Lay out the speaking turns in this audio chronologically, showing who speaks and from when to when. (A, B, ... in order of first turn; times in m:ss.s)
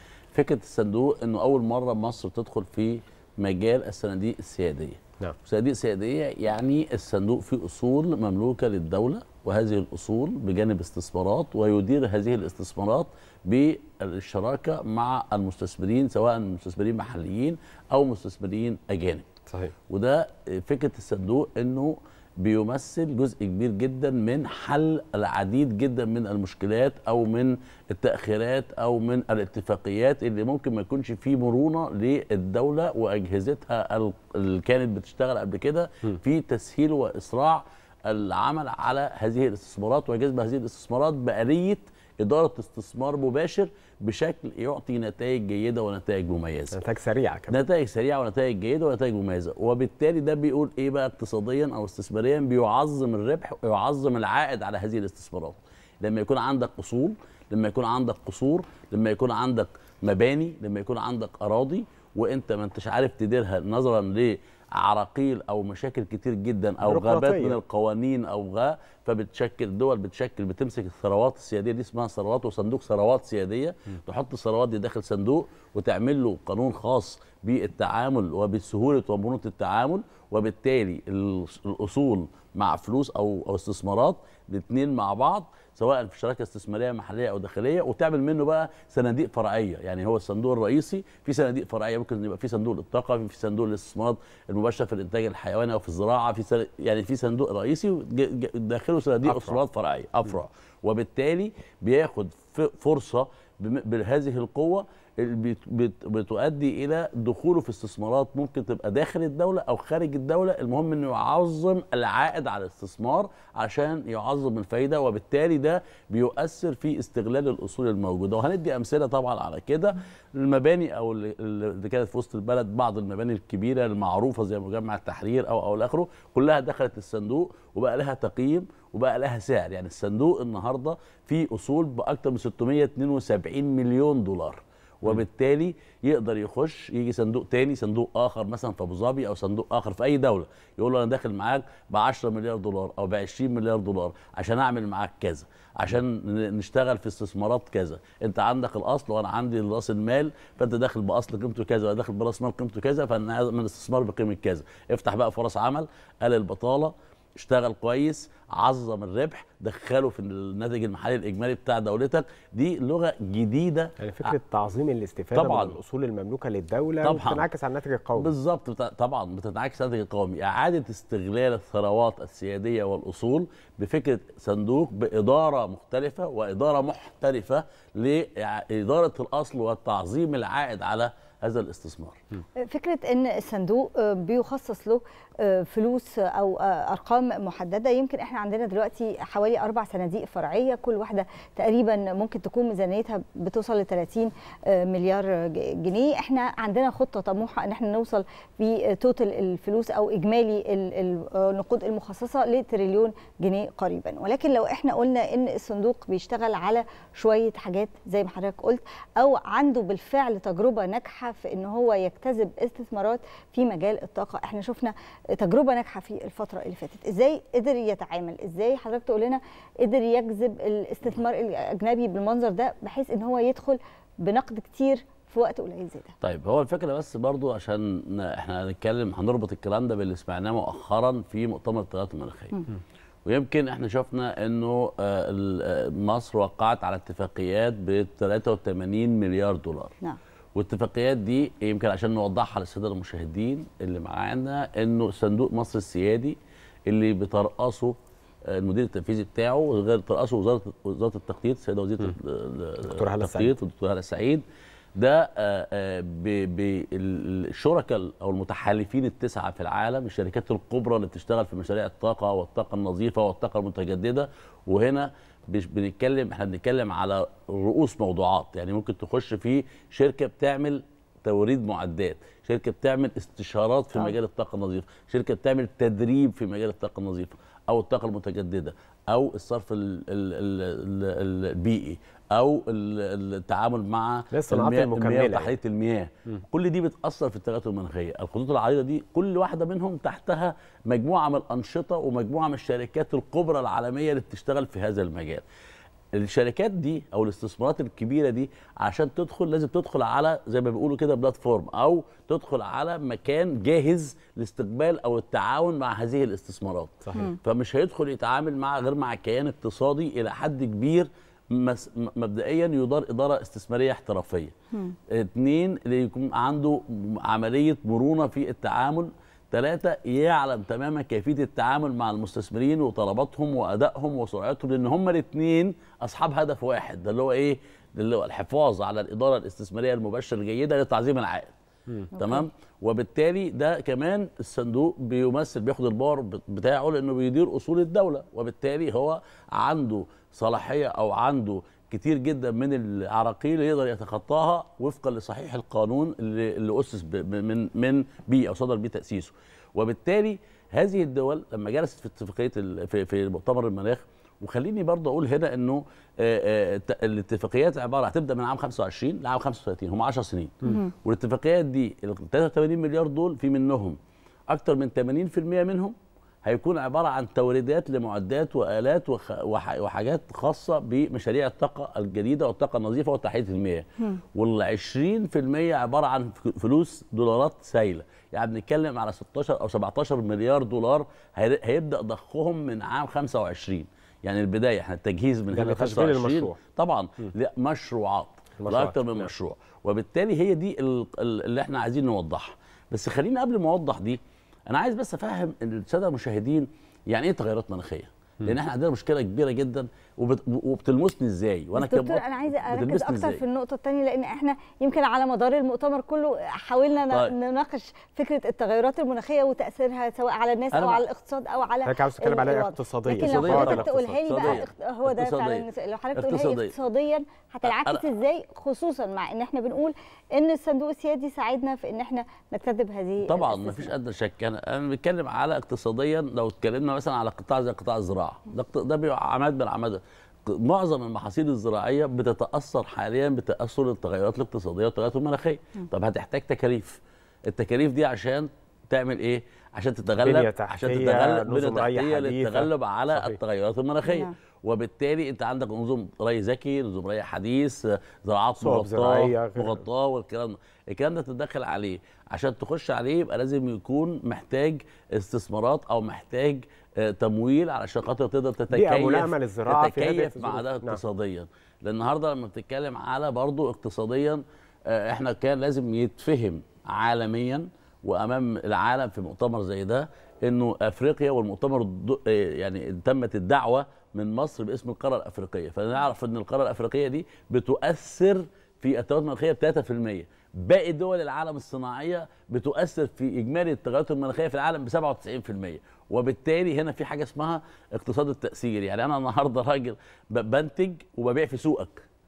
0:00.3-0:19.3 A
0:19.9-0:46.8 A
0:46.7-0:47.6 B
0:47.5-2:44.4 A
1:06.8-1:07.6 B
1:39.2-1:39.6 B
2:44.0-2:48.3 B
2:45.3-2:45.8 A
2:47.0-2:47.5 A
2:48.2-3:02.2 A
3:02.6-3:46.1 C
3:46.2-3:52.6 A
3:53.2-4:00.0 A
4:00.6-4:06.4 A
4:06.9-4:08.0 A
4:08.5-4:14.4 A
4:12.8-4:13.5 B
4:15.0-4:55.4 A
4:44.3-4:45.5 B
4:56.1-5:14.5 A
5:07.0-5:07.3 B
5:15.1-5:31.5 A
5:32.2-5:32.5 C
5:32.2-6:04.0 A
6:04.5-6:43.4 A
6:25.5-6:26.6 B
6:28.6-6:29.3 B
6:41.7-7:03.9 C
6:50.7-6:51.0 A
6:51.8-6:54.6 B
6:53.1-6:56.7 A
6:57.6-6:58.0 A
7:03.2-8:12.0 A
7:20.2-7:23.4 B
7:24.0-7:24.3 C
7:28.6-7:29.8 B
7:38.7-7:41.0 B